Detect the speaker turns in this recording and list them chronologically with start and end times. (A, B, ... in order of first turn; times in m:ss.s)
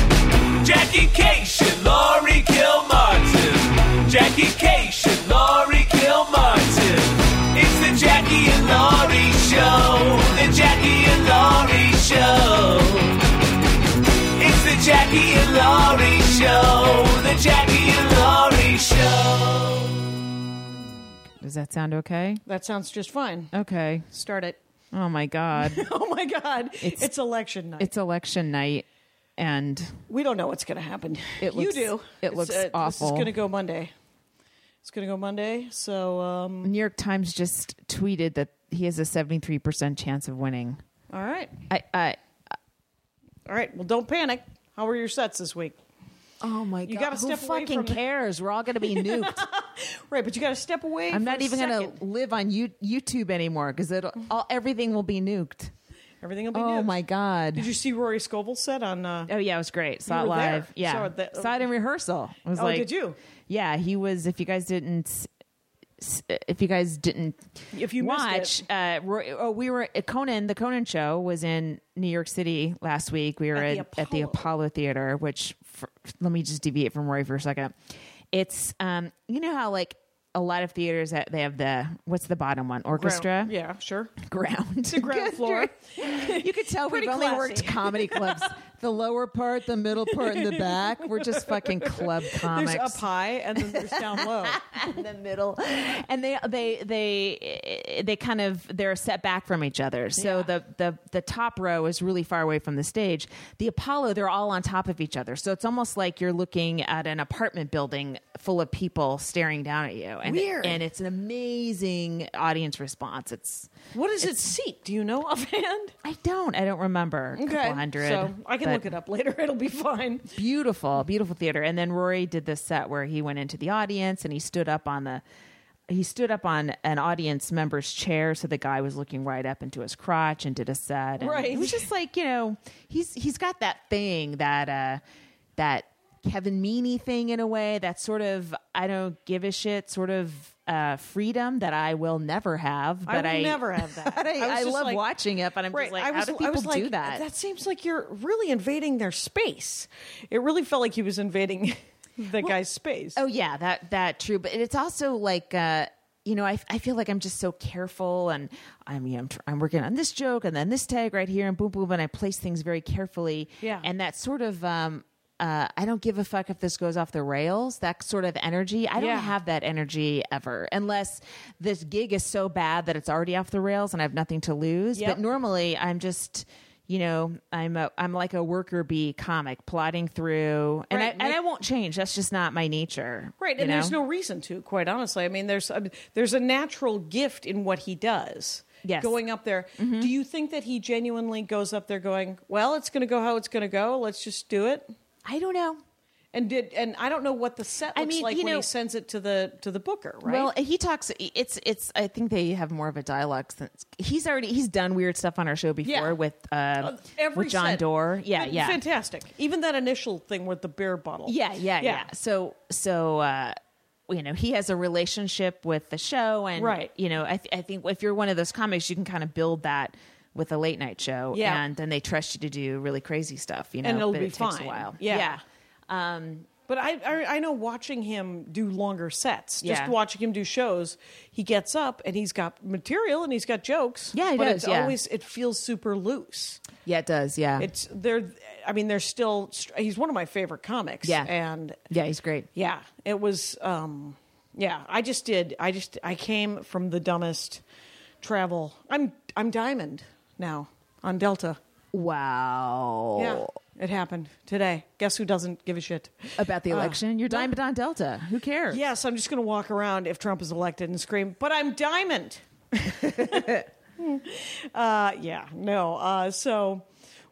0:00.6-0:13.2 A
0:14.4-0:20.0 A
0:21.4-0:22.4 B
0:22.5-0:23.5 C
0:23.5-0:24.1 B
0:24.1-0:24.6 C
0:24.9-0:25.8 B
0:25.6-0:27.9 C
0:26.8-0:27.1 B
0:27.8-0:28.8 B
0:29.4-0:30.0 B
0:30.1-0:33.9 C
0:31.4-0:33.3 B
0:34.8-0:36.7 C
0:36.6-0:40.8 B
0:41.1-0:41.6 C
0:41.7-0:42.2 B
0:43.5-0:45.8 C
0:46.4-0:49.4 B
0:46.8-0:48.0 C
0:48.8-0:52.0 C
0:51.1-0:55.7 B
0:56.2-0:57.0 C
0:56.5-0:57.7 B
0:57.5-0:59.3 C
0:59.3-1:02.9 B
1:00.1-1:01.6 C
1:02.6-1:03.2 C
1:03.5-1:05.3 B
1:06.0-1:17.8 B
1:07.7-1:08.6 C
1:13.5-1:14.5 C
1:18.3-1:23.5 B
1:23.0-1:24.2 C
1:24.2-1:33.0 B
1:24.9-1:28.6 C
1:30.1-1:34.6 C
1:33.6-1:53.7 B
1:40.2-1:40.5 C
1:50.2-1:50.8 C
1:53.9-1:55.9 C
1:56.0-1:58.8 B
1:57.4-2:00.3 C
2:00.3-2:05.2 B
2:05.9-2:15.0 B
2:11.2-2:11.8 C
2:15.6-2:27.2 B
2:23.1-2:25.0 C
2:25.7-2:33.2 C
2:33.2-3:04.0 B
2:43.6-2:43.9 C
2:49.0-2:49.3 C
2:54.9-2:55.2 C
3:00.9-3:01.4 C
3:03.4-3:14.9 C
3:08.8-3:09.1 B
3:09.8-3:10.1 B
3:15.2-3:15.8 B
3:16.3-3:20.5 C
3:17.9-3:18.7 B
3:20.2-3:28.8 B
3:25.8-3:26.2 C
3:26.8-3:32.1 C
3:31.3-3:33.6 B
3:34.1-3:46.5 B
3:36.6-3:36.9 C
3:41.3-3:41.6 C
3:43.8-3:45.4 C
3:46.7-3:56.6 C
3:49.6-3:49.9 B
3:54.1-3:55.0 B
3:56.8-3:57.7 B
3:57.6-4:01.8 C
4:01.0-4:01.3 B
4:01.9-4:02.5 B
4:02.5-4:07.6 C
4:08.2-4:11.6 C
4:11.9-4:13.5 B
4:13.2-4:17.5 C
4:16.4-4:18.8 B
4:18.7-4:26.9 C
4:23.0-4:23.6 B